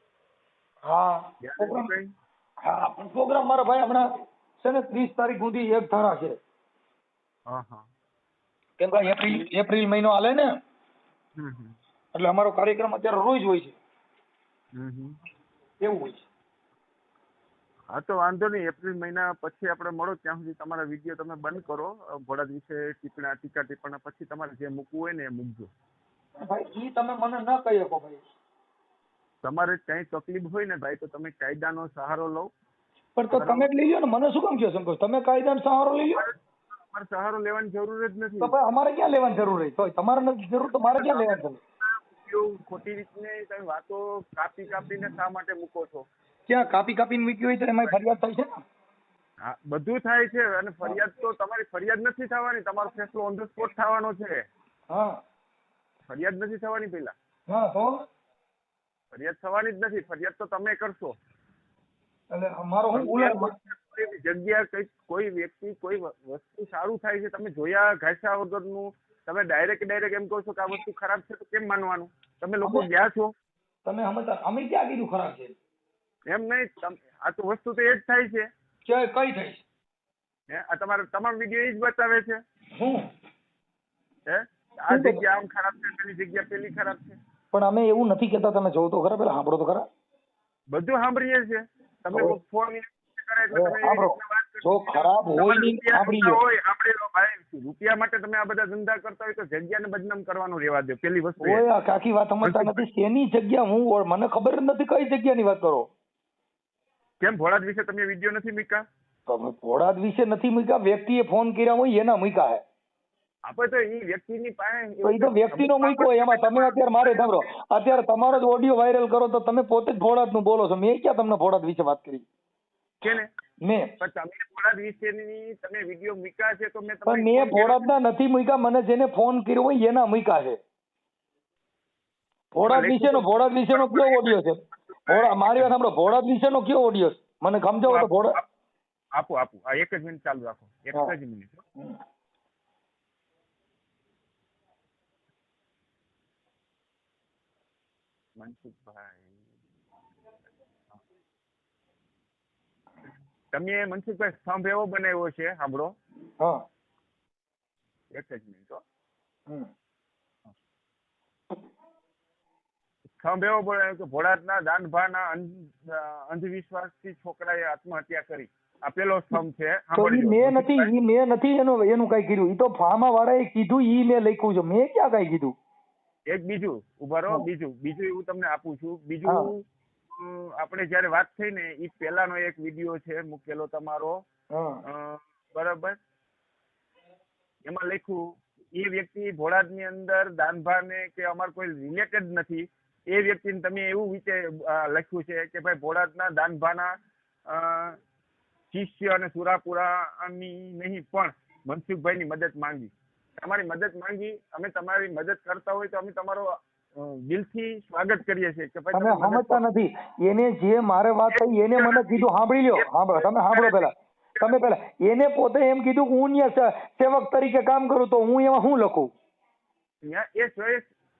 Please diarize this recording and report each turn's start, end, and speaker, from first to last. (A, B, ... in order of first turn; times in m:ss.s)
0:00.8-0:01.9 A
0:01.4-0:02.1 B
0:02.6-0:04.1 A
0:04.6-0:06.4 A
0:07.5-0:07.9 B
0:08.8-0:10.5 A
0:09.0-0:09.5 B
0:11.4-0:11.8 B
0:12.1-0:13.8 A
0:14.8-0:15.2 B
0:15.8-0:16.2 A
0:17.9-0:25.7 B
0:26.4-0:28.2 A
0:29.4-0:32.5 B
0:33.2-0:36.2 A
0:33.3-0:33.7 B
0:36.1-0:38.5 B
0:38.4-0:41.6 A
0:40.7-0:46.1 B
0:46.5-0:48.6 A
0:49.4-0:54.4 B
0:54.9-0:55.2 A
0:56.1-0:57.1 B
0:57.5-0:58.0 A
0:59.1-1:01.1 B
1:02.3-1:03.5 A
1:02.9-1:13.3 B
1:13.8-1:15.6 A
1:16.3-1:18.5 B
1:18.8-1:19.6 A
1:20.5-1:22.4 B
1:22.8-1:23.1 A
1:24.3-1:27.2 B
1:24.9-1:25.2 A
1:27.5-1:29.8 A
1:30.7-1:41.6 B
1:33.5-1:36.4 A
1:41.4-1:45.9 A
1:42.4-1:42.8 B
1:47.2-1:48.8 B
1:49.3-1:52.6 A
1:53.4-1:58.4 B
1:55.0-2:02.2 A
2:03.0-2:03.3 B
2:03.6-2:03.9 A
2:04.0-2:07.8 B
2:07.0-2:10.6 A
2:12.5-2:18.4 A
2:12.6-2:15.7 B
2:17.8-2:18.4 B
2:19.1-2:21.6 B
2:28.4-2:29.3 B
2:33.5-2:35.9 B
2:36.4-2:36.6 A
2:38.1-2:38.8 B
2:43.1-2:50.9 B
2:49.9-2:55.5 A
2:56.3-3:04.2 B
3:04.5-3:04.8 A
3:04.8-3:06.0 B
3:07.6-3:16.9 B
3:17.5-3:18.0 B
3:18.7-3:29.6 B
3:28.9-3:39.1 A
3:31.3-3:34.6 B
3:40.0-3:40.9 B